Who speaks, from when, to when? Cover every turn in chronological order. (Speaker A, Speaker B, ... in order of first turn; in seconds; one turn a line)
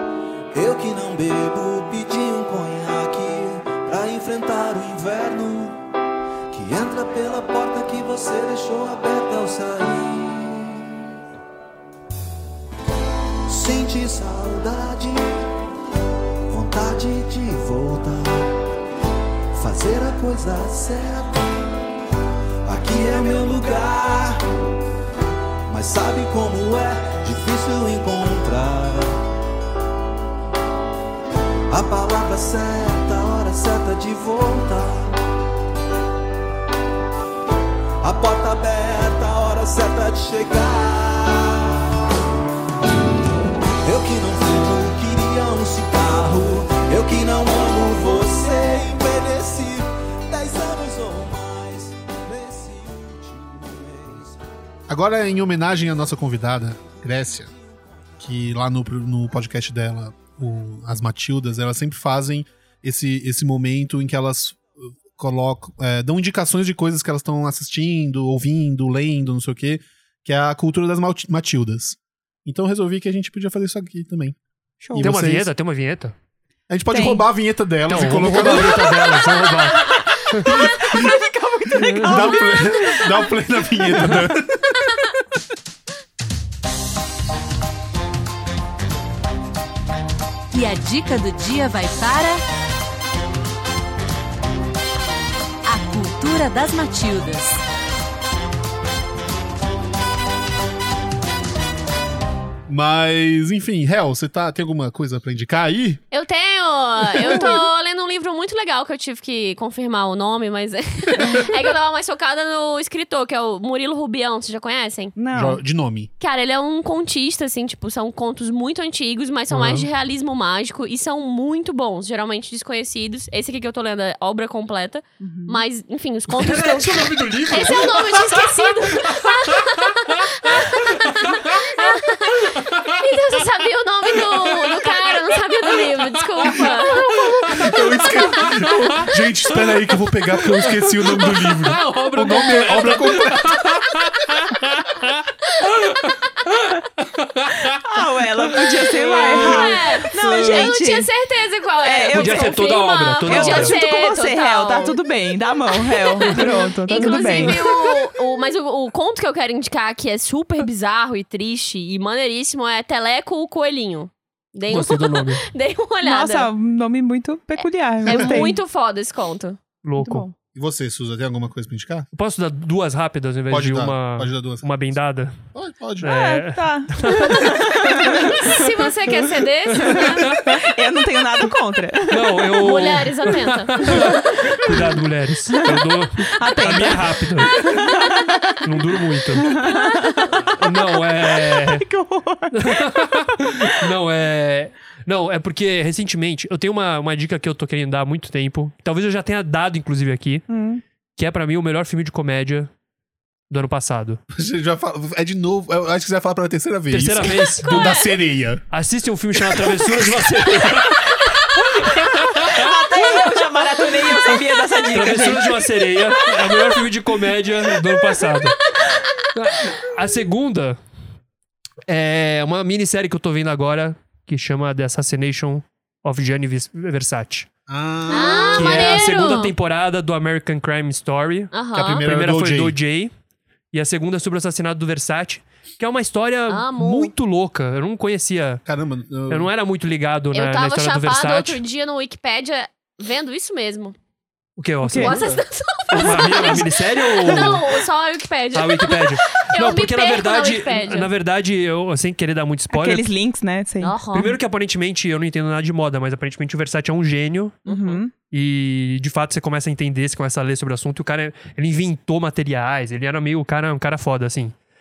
Speaker A: 0.5-5.8
Speaker A: 6.5-11.0
Speaker A: 13.5-15.4
Speaker A: 16.5-18.6
Speaker A: 19.5-21.7
Speaker A: 22.6-24.4
Speaker A: 25.7-29.2
Speaker A: 31.7-35.1
Speaker A: 38.0-41.8
Speaker A: 43.8-54.4
Speaker B: 54.9-57.5
Speaker A: 56.8-57.8
Speaker B: 58.2-74.3
Speaker C: 74.8-75.1
Speaker B: 74.9-75.5
Speaker D: 75.0-76.1
Speaker B: 76.7-79.2
Speaker C: 76.9-77.2
Speaker D: 77.9-80.5
Speaker C: 80.2-84.1
Speaker B: 80.5-81.1
Speaker B: 81.7-84.8
Speaker D: 81.8-82.3
Speaker E: 90.5-92.4
Speaker E: 95.6-97.6
Speaker B: 102.7-106.0
Speaker F: 106.1-115.1
Speaker C: 107.2-107.6
Speaker C: 111.2-111.5
Speaker C: 115.2-115.6
Speaker B: 115.3-116.1
Speaker F: 116.2-137.1
Speaker B: 119.5-119.9
Speaker C: 125.2-125.6
Speaker D: 126.3-131.9
Speaker D: 132.5-133.0
Speaker D: 134.2-135.2
Speaker D: 136.4-137.9
Speaker B: 137.4-143.8
Speaker D: 140.4-147.8
Speaker C: 147.7-151.1
Speaker D: 148.5-150.7
Speaker F: 149.4-154.9
Speaker C: 151.8-157.8
Speaker D: 152.1-153.8
Speaker F: 156.2-166.5
Speaker D: 156.5-157.6
Speaker D: 164.7-165.4
Speaker C: 166.0-168.6
Speaker F: 168.0-169.6
Speaker B: 168.1-168.4
Speaker D: 169.8-170.3
Speaker C: 170.0-170.3
Speaker B: 170.5-172.1
Speaker D: 172.1-175.4
Speaker B: 173.5-175.0
Speaker B: 175.5-176.1
Speaker D: 176.0-177.7
Speaker C: 176.0-178.8
Speaker F: 178.2-180.2
Speaker D: 179.8-180.5
Speaker C: 179.8-182.5
Speaker D: 182.1-187.8
Speaker F: 182.6-184.1
Speaker C: 183.8-185.0
Speaker C: 185.5-190.6
Speaker D: 188.6-189.6
Speaker D: 190.4-191.8
Speaker C: 191.2-193.5
Speaker D: 192.5-200.4
Speaker C: 200.5-200.8
Speaker D: 201.2-202.7
Speaker D: 203.5-204.2
Speaker B: 204.3-208.6
Speaker D: 206.9-208.0
Speaker C: 207.7-208.0
Speaker D: 208.7-211.1
Speaker B: 209.5-210.3
Speaker D: 211.8-213.3
Speaker C: 212.4-215.6
Speaker D: 214.9-218.6
Speaker D: 219.3-220.8
Speaker D: 221.9-227.5
Speaker B: 227.7-229.1
Speaker F: 228.1-229.5
Speaker D: 228.5-233.1
Speaker F: 231.5-232.0
Speaker B: 231.7-232.8
Speaker D: 233.7-238.6
Speaker F: 236.5-237.1
Speaker B: 238.6-239.5
Speaker D: 239.3-241.6
Speaker F: 240.3-243.9
Speaker D: 244.6-245.2
Speaker C: 244.8-245.2
Speaker F: 245.0-251.1
Speaker B: 245.1-245.4
Speaker D: 245.9-247.6
Speaker C: 247.3-247.6
Speaker D: 248.5-253.1
Speaker C: 252.7-253.9
Speaker F: 253.8-254.4
Speaker D: 254.1-257.6
Speaker F: 257.6-258.0
Speaker C: 257.6-258.1
Speaker D: 258.3-264.5